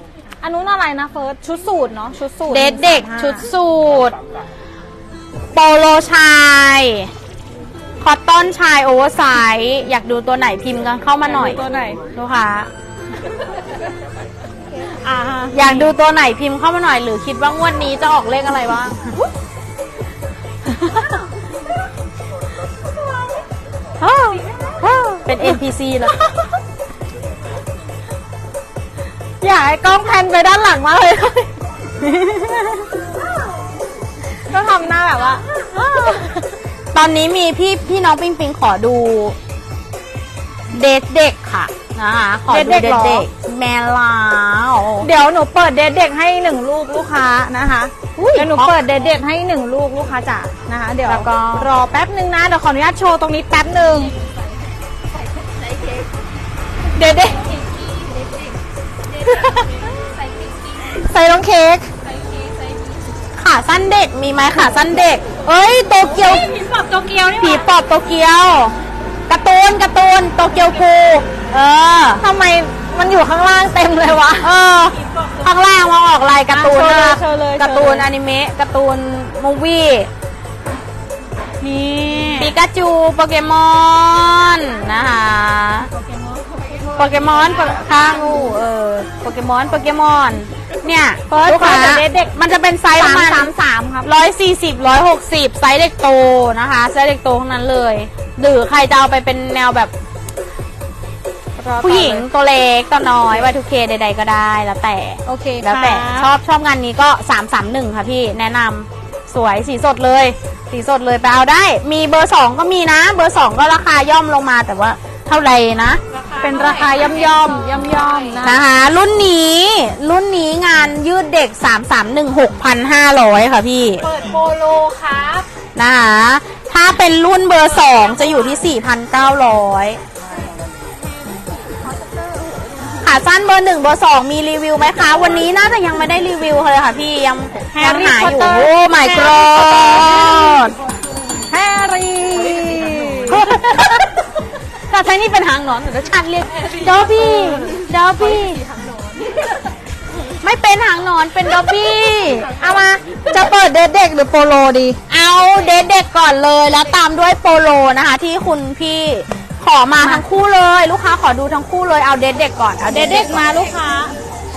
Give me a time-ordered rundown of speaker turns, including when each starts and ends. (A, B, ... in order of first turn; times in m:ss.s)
0:00.4-0:03.4 A
0:02.5-0:04.2 B
0:05.5-0:07.1 B
0:08.0-0:11.6 B
0:11.2-0:12.0 A
0:12.1-0:12.7 B
0:14.8-0:15.9 A
0:15.5-0:19.0 B
0:24.0-0:25.6 A
0:25.2-0:26.2 B
0:26.2-0:26.5 A
0:29.4-0:31.5 A
0:32.0-0:32.9 B
0:34.5-0:35.4 A
0:36.0-0:36.3 A
0:36.9-0:39.4 B
0:40.7-0:45.1 B
0:42.5-0:43.2 A
0:45.0-0:54.1 A
0:48.2-0:48.7 B
0:51.0-0:51.7 B
0:57.0-0:57.4 A
0:57.3-0:58.6 C
0:59.2-1:00.9 C
0:59.4-0:59.7 A
1:00.8-1:01.9 A
1:02.0-1:03.0 C
1:03.4-1:05.2 B
1:05.4-1:07.6 A
1:06.2-1:07.5 C
1:07.4-1:08.7 B
1:09.3-1:12.2 B
1:12.2-1:14.5 A
1:14.4-1:20.1 B
1:15.1-1:15.4 C
1:16.5-1:18.1 A
1:21.6-1:22.5 A
1:22.4-1:25.9 B
1:26.2-1:28.2 C
1:26.9-1:39.9 B
1:31.3-1:32.3 A
1:32.9-1:34.1 A
1:41.6-1:42.2 A
1:41.8-1:56.0 B
1:45.2-1:46.3 A
1:56.1-1:58.4 C
1:56.4-1:58.6 A
1:58.4-2:04.0 B
2:04.0-2:05.5 C
2:05.8-2:10.0 B
2:13.0-2:20.7 B
2:17.7-2:20.3 A
2:21.5-2:23.4 A
2:23.3-2:24.1 B
2:24.9-2:28.6 B
2:27.0-2:27.6 A
2:30.2-2:32.8 B
2:32.5-2:35.0 A
2:35.1-2:43.5 B
2:42.9-2:44.1 A